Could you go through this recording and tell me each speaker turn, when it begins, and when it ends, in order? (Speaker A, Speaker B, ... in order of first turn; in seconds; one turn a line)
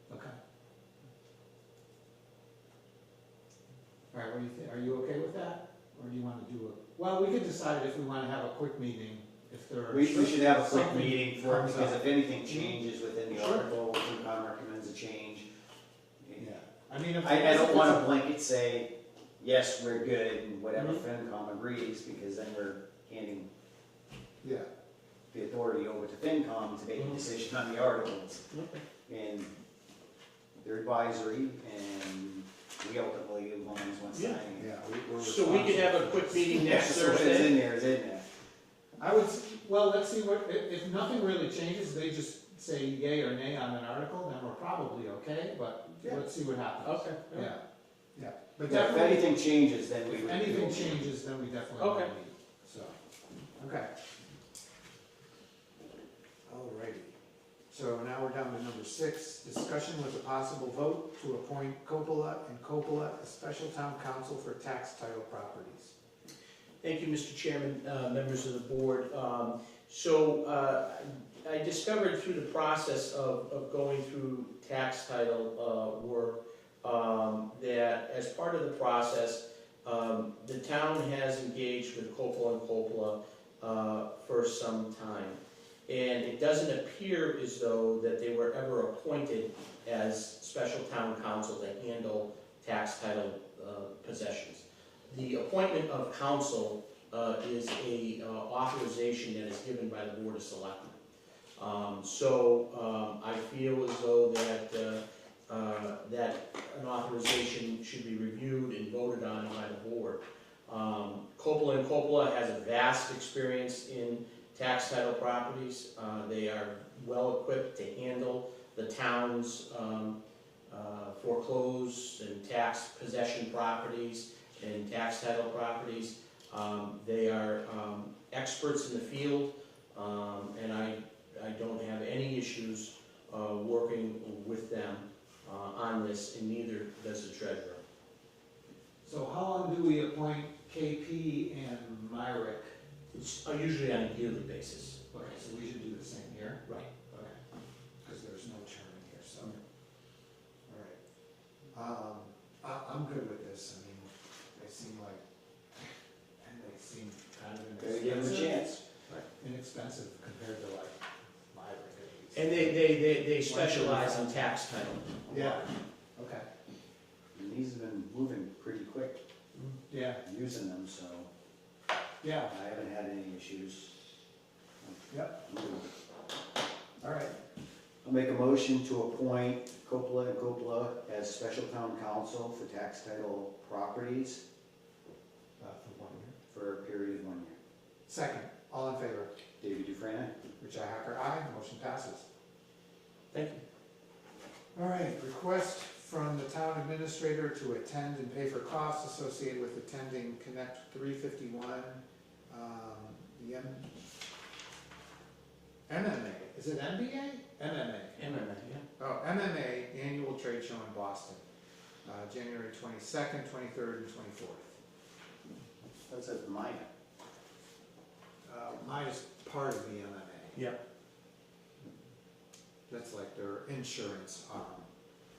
Speaker A: 0.1-0.4
Speaker A: 4.1-13.7
Speaker B: 9.9-15.5
Speaker B: 16.2-16.5
Speaker A: 16.4-18.2
Speaker B: 17.1-23.5
Speaker C: 20.8-21.0
Speaker A: 24.4-24.7
Speaker B: 25.3-28.5
Speaker C: 27.0-27.2
Speaker C: 28.5-28.8
Speaker B: 29.1-29.5
Speaker B: 30.6-34.7
Speaker C: 34.1-34.4
Speaker A: 34.6-36.8
Speaker C: 35.2-37.6
Speaker B: 36.5-38.3
Speaker A: 39.0-47.6
Speaker C: 46.8-47.5
Speaker A: 48.1-49.3
Speaker B: 48.6-51.1
Speaker A: 50.1-53.0
Speaker C: 51.8-52.1
Speaker A: 53.6-53.9
Speaker A: 56.5-57.2
Speaker A: 57.7-66.0
Speaker C: 66.8-101.0
Speaker C: 101.6-120.2
Speaker C: 120.7-137.8
Speaker A: 139.0-142.8
Speaker C: 143.1-145.0
Speaker A: 145.1-147.4
Speaker A: 148.0-149.6
Speaker A: 150.7-151.0
Speaker A: 151.7-155.2
Speaker A: 156.4-164.4
Speaker B: 157.8-158.8
Speaker C: 162.3-165.5
Speaker A: 165.3-166.5
Speaker B: 167.3-169.2
Speaker A: 169.9-170.2
Speaker B: 170.2-171.3
Speaker A: 172.2-172.5
Speaker B: 172.5-173.9
Speaker B: 174.8-175.9
Speaker A: 175.1-175.4
Speaker A: 177.0-177.4
Speaker B: 178.0-184.4
Speaker A: 185.6-186.4
Speaker B: 186.5-187.6
Speaker A: 188.1-189.3
Speaker B: 189.6-190.3
Speaker A: 190.6-192.3
Speaker C: 193.3-193.6
Speaker A: 194.8-203.9
Speaker A: 205.9-208.2
Speaker C: 208.2-208.9
Speaker A: 209.0-211.4
Speaker A: 212.0-214.8
Speaker B: 216.1-216.9
Speaker A: 218.4-220.6
Speaker A: 222.9-224.9